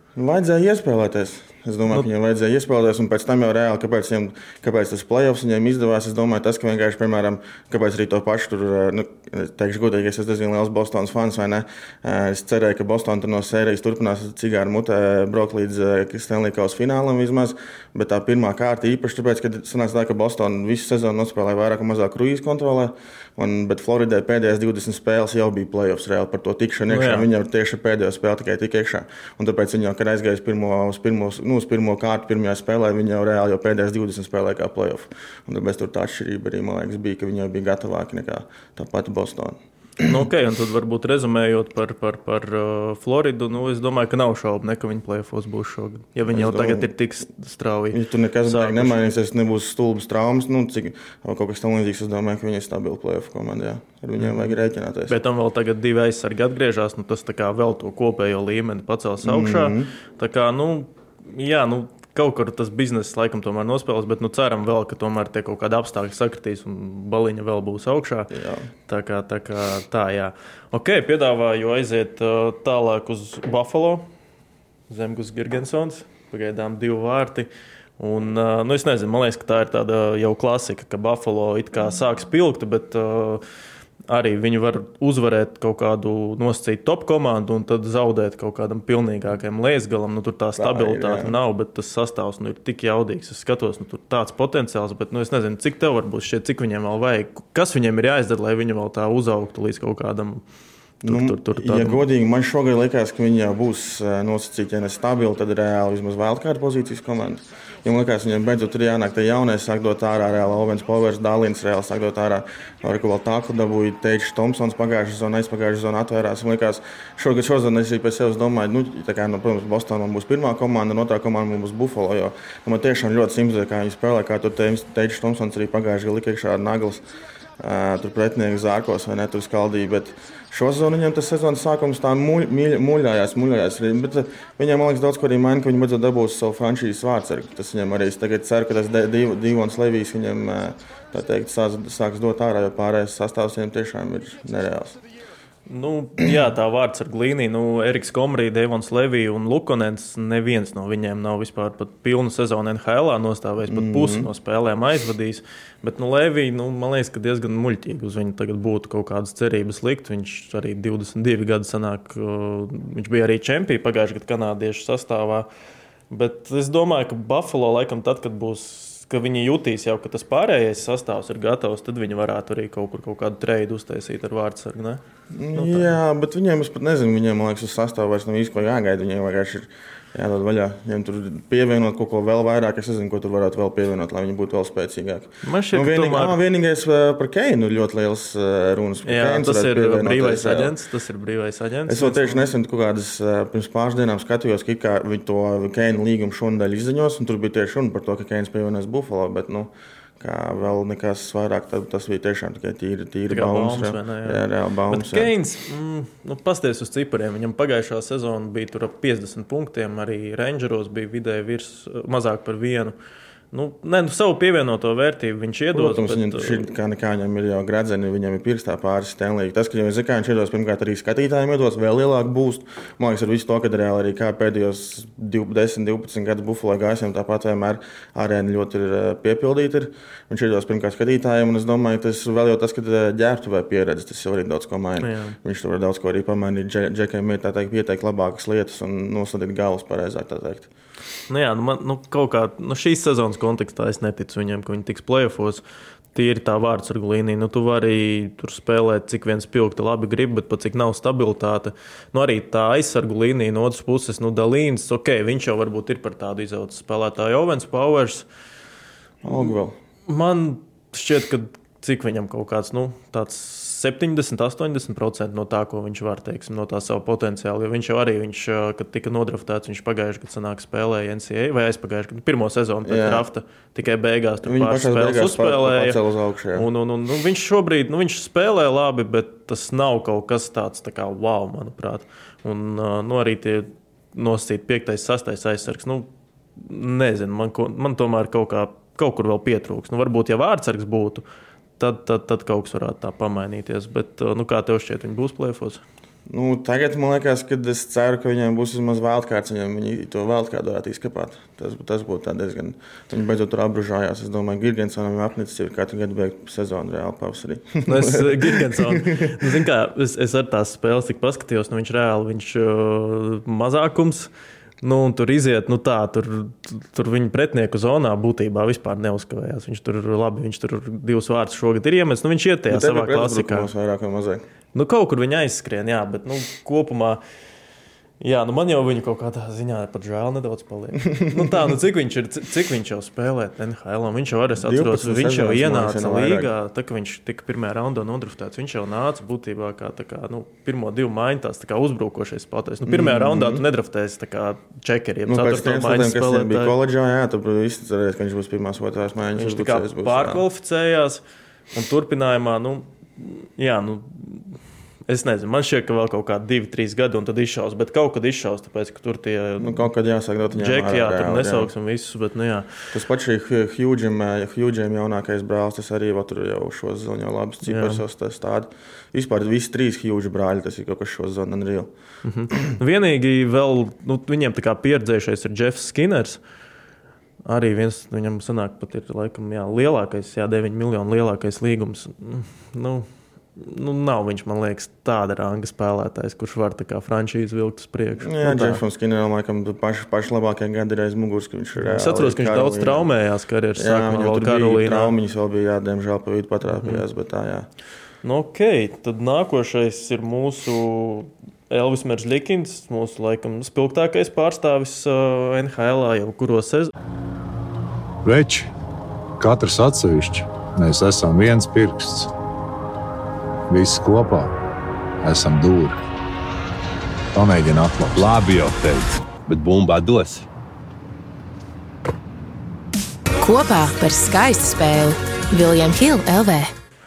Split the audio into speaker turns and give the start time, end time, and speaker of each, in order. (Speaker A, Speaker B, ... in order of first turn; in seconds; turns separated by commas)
Speaker A: 0.1-40.2, Speaker B: 26.9-27.3, Speaker B: 40.0-49.0, Speaker A: 46.3-46.9, Speaker A: 47.9-55.1, Speaker B: 54.2-54.5, Speaker B: 55.1-68.3, Speaker A: 59.2-59.9, Speaker A: 68.3-68.7, Speaker B: 68.9-74.1, Speaker B: 74.9-77.5, Speaker B: 78.0-83.4, Speaker B: 84.1-100.4, Speaker A: 90.6-91.3, Speaker A: 101.0-127.0, Speaker B: 101.0-102.0, Speaker A: 127.6-145.0, Speaker B: 145.7-165.5, Speaker A: 153.7-154.3, Speaker B: 166.1-175.0, Speaker A: 175.3-190.7, Speaker B: 175.6-175.9, Speaker B: 185.4-186.4, Speaker B: 189.1-192.4, Speaker A: 191.9-205.3, Speaker B: 203.3-212.9, Speaker B: 213.5-216.6, Speaker A: 215.7-240.7, Speaker B: 235.0-235.3, Speaker B: 241.3-245.6, Speaker B: 246.1-258.2, Speaker A: 259.2-259.8, Speaker B: 260.1-276.0, Speaker A: 272.9-273.2, Speaker A: 274.4-276.7, Speaker B: 276.6-291.2, Speaker B: 291.8-295.8, Speaker A: 296.3-309.6, Speaker B: 307.8-314.3, Speaker B: 314.8-323.7, Speaker A: 322.7-324.4, Speaker B: 324.7-327.2, Speaker B: 328.2-346.7, Speaker A: 334.6-336.5, Speaker A: 342.9-343.6, Speaker A: 345.2-350.4, Speaker B: 349.4-354.5, Speaker B: 355.1-359.9, Speaker A: 359.6-361.7, Speaker B: 360.5-362.8, Speaker A: 362.9-371.9, Speaker B: 367.6-368.0, Speaker B: 372.2-376.4, Speaker B: 377.4-388.8, Speaker A: 388.2-393.1, Speaker B: 391.8-395.1, Speaker A: 393.8-397.7, Speaker B: 396.7-397.0, Speaker B: 398.2-406.9, Speaker C: 408.2-408.7, Speaker C: 409.4-412.3, Speaker C: 413.7-414.5, Speaker C: 415.2-416.0, Speaker C: 417.3-418.9, Speaker D: 418.2-420.4, Speaker E: 423.4-426.7